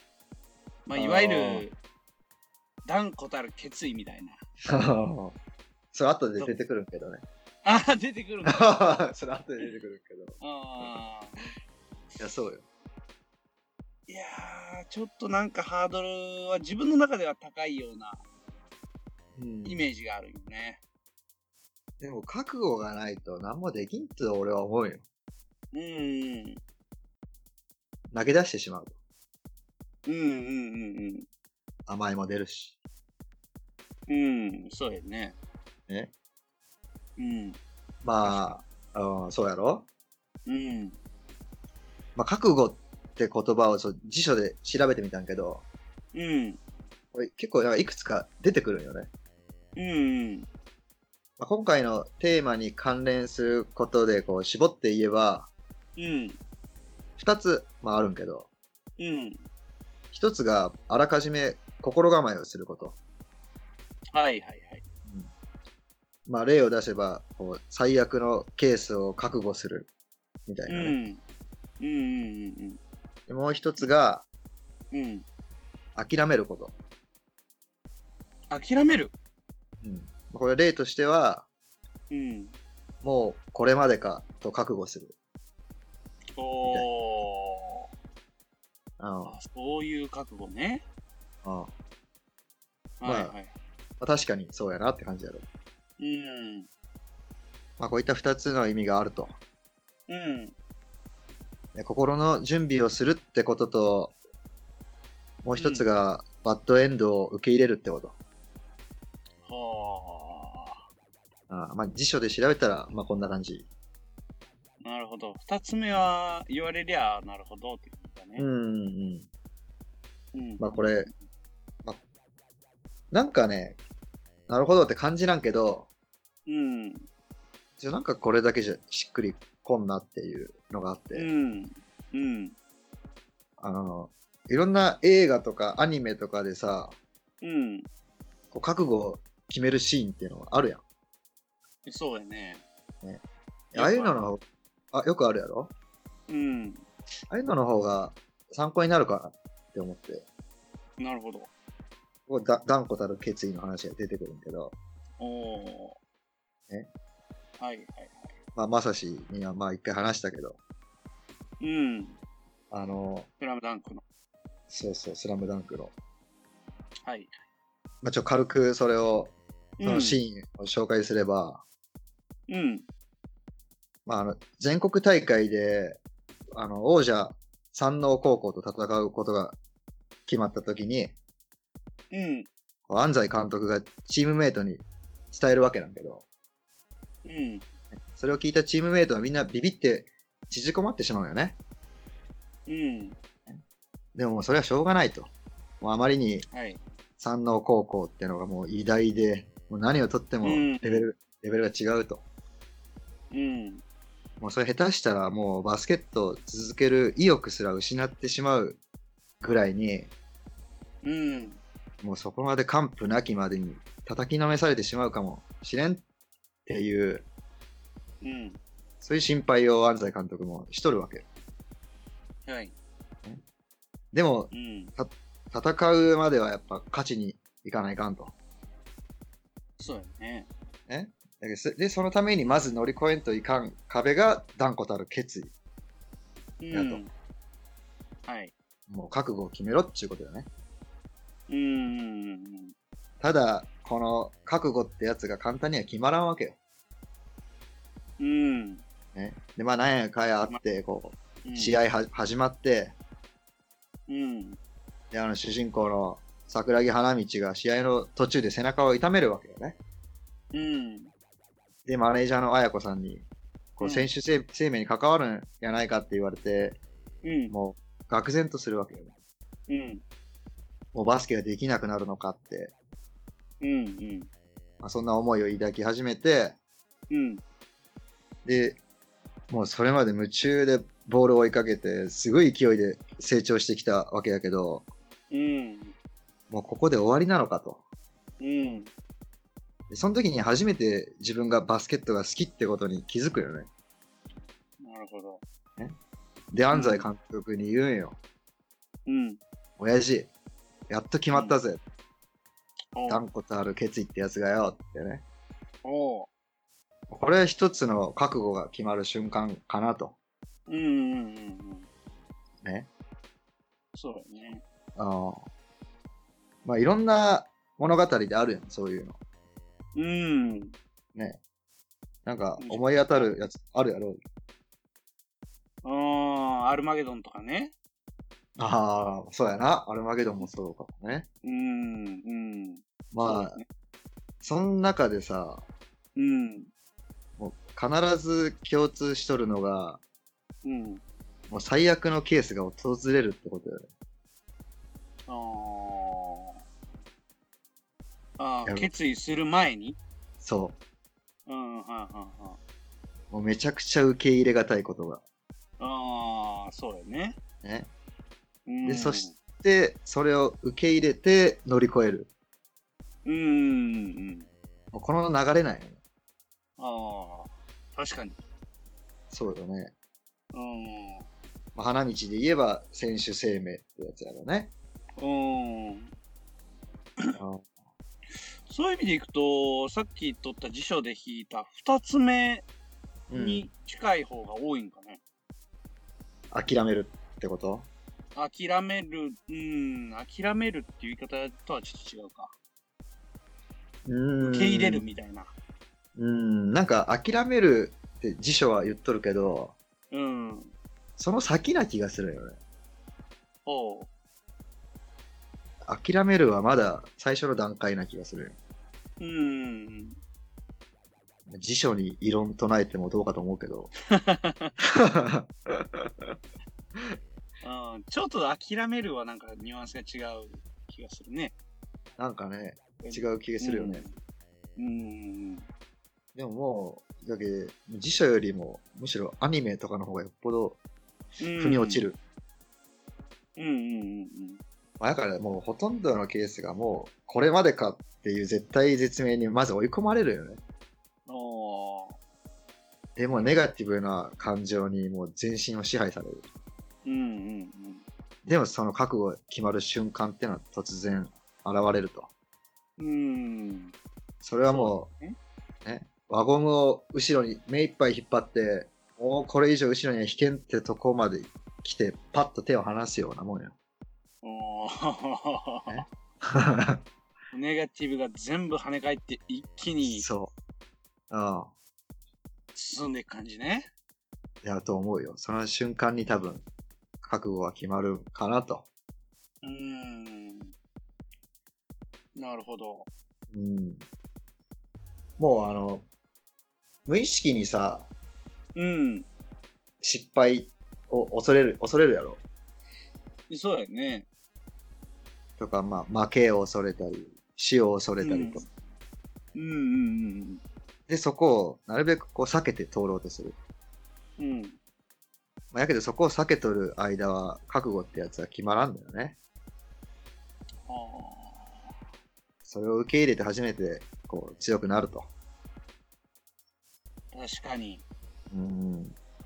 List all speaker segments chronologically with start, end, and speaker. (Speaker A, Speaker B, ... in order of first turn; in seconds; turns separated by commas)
Speaker A: 0.8-1.8, Speaker B: 0.9-1.6, Speaker A: 2.8-4.4, Speaker B: 4.6-5.4, Speaker B: 5.9-7.2, Speaker A: 7.6-8.8, Speaker B: 8.5-10.4, Speaker A: 10.4-11.4, Speaker B: 12.2-12.6, Speaker A: 14.1-18.2, Speaker B: 19.4-19.9, Speaker A: 19.6-20.8, Speaker B: 22.0-25.0, Speaker A: 25.7-26.6, Speaker B: 28.1-28.9, Speaker A: 30.1-31.2, Speaker B: 31.9-32.7, Speaker A: 34.1-35.4, Speaker A: 37.2-37.6, Speaker B: 38.0-39.9, Speaker A: 38.2-38.6, Speaker A: 40.5-41.0, Speaker B: 42.1-45.6, Speaker A: 46.1-46.6, Speaker B: 47.1-49.1, Speaker A: 49.8-50.5, Speaker B: 51.4-55.5, Speaker A: 56.0-56.4, Speaker B: 57.2-58.5, Speaker A: 59.0-59.4, Speaker B: 60.1-63.0, Speaker A: 64.1-64.8, Speaker B: 65.1-65.3, Speaker B: 66.2-69.9, Speaker B: 70.5-71.0, Speaker A: 70.7-71.2, Speaker A: 71.8-72.8, Speaker B: 73.3-74.2, Speaker A: 74.9-75.2, Speaker B: 75.9-76.7, Speaker A: 78.5-79.1, Speaker B: 79.8-81.5, Speaker A: 82.1-82.6, Speaker B: 83.0-85.1, Speaker A: 86.4-87.8, Speaker B: 89.0-89.4, Speaker A: 89.2-90.8, Speaker B: 91.4-91.7, Speaker A: 93.0-93.5, Speaker B: 93.0-93.3, Speaker B: 94.0-95.5, Speaker A: 96.0-96.7, Speaker B: 97.8-99.4, Speaker A: 100.1-100.5, Speaker B: 101.7-104.1, Speaker B: 105.4-108.2, Speaker A: 105.5-105.9, Speaker A: 109.4-110.8, Speaker B: 111.5-113.7, Speaker A: 114.8-118.5, Speaker B: 118.4-119.3, Speaker A: 120.3-121.1, Speaker B: 120.6-121.1, Speaker B: 123.1-123.8, Speaker B: 124.5-125.9, Speaker A: 126.5-127.1, Speaker B: 127.8-131.3, Speaker A: 131.1-132.5, Speaker B: 133.6-137.0, Speaker A: 137.4-137.9, Speaker B: 138.5-140.8, Speaker A: 141.8-142.6, Speaker B: 143.0-144.4, Speaker A: 143.7-144.2, Speaker B: 144.9-145.7, Speaker A: 146.3-146.8, Speaker B: 147.3-150.2, Speaker A: 151.0-151.5, Speaker B: 152.3-154.7, Speaker A: 155.2-156.0, Speaker A: 157.6-158.3, Speaker B: 158.5-160.6, Speaker A: 161.6-162.2, Speaker B: 162.7-163.3, Speaker A: 163.4-164.0, Speaker B: 164.7-165.9, Speaker A: 167.0-167.3, Speaker B: 168.0-171.6, Speaker A: 169.8-170.2, Speaker A: 172.5-172.8, Speaker B: 174.1-176.0, Speaker B: 176.5-179.6, Speaker B: 180.3-181.2, Speaker A: 182.1-182.5, Speaker B: 182.9-186.2, Speaker A: 187.2-187.7, Speaker B: 187.9-191.6, Speaker A: 192.7-193.2, Speaker B: 194.1-196.4, Speaker A: 196.5-196.8, Speaker B: 197.2-202.2, Speaker A: 200.4-201.1, Speaker A: 203.3-203.8, Speaker B: 204.4-208.8, Speaker B: 209.4-210.1, Speaker A: 211.0-211.6, Speaker B: 212.0-216.0, Speaker B: 216.7-217.3, Speaker A: 218.2-218.6, Speaker B: 219.0-221.2, Speaker A: 222.4-222.7, Speaker B: 224.1-228.3, Speaker A: 224.5-224.9, Speaker A: 229.8-230.5, Speaker B: 230.9-235.5, Speaker A: 236.6-237.1, Speaker B: 236.7-237.0, Speaker A: 238.2-238.5, Speaker B: 238.9-240.5, Speaker A: 241.5-242.7, Speaker B: 243.2-246.6, Speaker A: 248.2-248.8, Speaker B: 249.1-252.9, Speaker A: 251.4-251.8, Speaker A: 254.1-254.6, Speaker B: 255.1-259.8, Speaker A: 260.5-261.1, Speaker B: 261.9-263.2, Speaker B: 263.8-266.8, Speaker A: 263.8-264.1, Speaker A: 267.2-267.5, Speaker B: 267.5-269.1, Speaker A: 269.7-270.0, Speaker B: 270.9-272.7, Speaker A: 273.6-274.3, Speaker B: 274.8-276.6, Speaker A: 277.1-277.4, Speaker B: 278.4-278.8, Speaker B: 279.5-284.9, Speaker A: 285.3-285.9, Speaker B: 286.5-287.8, Speaker A: 288.4-288.9, Speaker B: 289.9-293.7, Speaker A: 294.8-295.4, Speaker B: 296.5-298.2, Speaker A: 296.7-297.1, Speaker A: 299.1-299.4, Speaker B: 299.8-300.3, Speaker B: 300.9-301.8, Speaker A: 301.3-301.6, Speaker A: 302.9-303.2, Speaker B: 303.1-305.2, Speaker A: 305.8-306.3, Speaker B: 307.1-310.1, Speaker A: 310.7-311.9, Speaker B: 312.6-312.9, Speaker A: 313.9-314.6, Speaker B: 314.9-315.4, Speaker B: 316.6-319.1, Speaker A: 319.9-320.7, Speaker B: 321.1-321.4, Speaker B: 322.2-324.2, Speaker A: 322.6-323.3, Speaker A: 325.8-327.7, Speaker B: 328.6-331.3, Speaker A: 331.4-333.6, Speaker B: 333.1-333.6, Speaker B: 334.4-335.6, Speaker A: 336.1-336.7, Speaker B: 337.4-340.0, Speaker A: 340.6-341.0, Speaker B: 341.5-343.9, Speaker A: 345.3-346.5, Speaker A: 348.4-350.0, Speaker B: 350.4-350.8, Speaker A: 351.4-352.6, Speaker B: 353.3-355.2, Speaker A: 355.8-357.4, Speaker B: 357.6-357.9, Speaker A: 358.7-359.3, Speaker B: 358.8-362.3, Speaker A: 363.2-364.5, Speaker B: 364.9-366.0, Speaker A: 366.8-368.4, Speaker B: 369.3-369.9, Speaker A: 370.5-371.2, Speaker B: 371.7-374.7, Speaker A: 375.2-376.1, Speaker B: 377.3-377.7, Speaker A: 378.7-382.6, Speaker B: 383.3-383.7, Speaker A: 383.3-385.2, Speaker B: 386.5-387.9, Speaker A: 388.3-392.5, Speaker B: 394.0-395.1, Speaker A: 394.4-395.5, Speaker B: 396.1-399.7, Speaker A: 400.1-400.7, Speaker B: 401.2-402.6, Speaker A: 403.6-404.1, Speaker B: 405.8-408.6, Speaker A: 409.2-410.2, Speaker B: 411.5-413.9, Speaker A: 414.1-414.7, Speaker B: 414.8-416.3, Speaker A: 417.6-421.5, Speaker B: 422.2-424.1, Speaker A: 423.0-424.1, Speaker A: 424.8-425.6, Speaker B: 426.3-430.8, Speaker A: 431.4-432.0, Speaker B: 431.6-432.2, Speaker A: 433.6-434.6, Speaker B: 435.0-440.6, Speaker A: 441.3-442.2, Speaker B: 443.1-446.4, Speaker A: 447.0-448.0, Speaker B: 448.4-452.3, Speaker A: 453.0-453.9, Speaker B: 454.4-455.1, Speaker A: 454.7-455.3, Speaker B: 455.8-463.7, Speaker A: 464.4-466.0, Speaker B: 465.9-467.0, Speaker A: 467.5-470.2, Speaker B: 470.0-470.5, Speaker B: 471.3-471.7, Speaker A: 472.7-473.9, Speaker B: 474.6-476.6, Speaker B: 477.2-478.9, Speaker A: 479.6-480.7, Speaker A: 482.4-483.1, Speaker B: 483.5-484.0, Speaker B: 485.4-486.1, Speaker B: 487.1-488.1, Speaker A: 488.7-489.2, Speaker B: 490.0-492.4, Speaker A: 493.5-494.2, Speaker B: 495.6-498.6, Speaker A: 498.2-498.6, Speaker A: 499.5-500.6, Speaker B: 501.1-503.6, Speaker A: 504.4-504.8, Speaker B: 505.7-509.4, Speaker A: 510.9-511.9, Speaker B: 512.6-515.3, Speaker A: 517.3-518.0, Speaker B: 518.5-519.1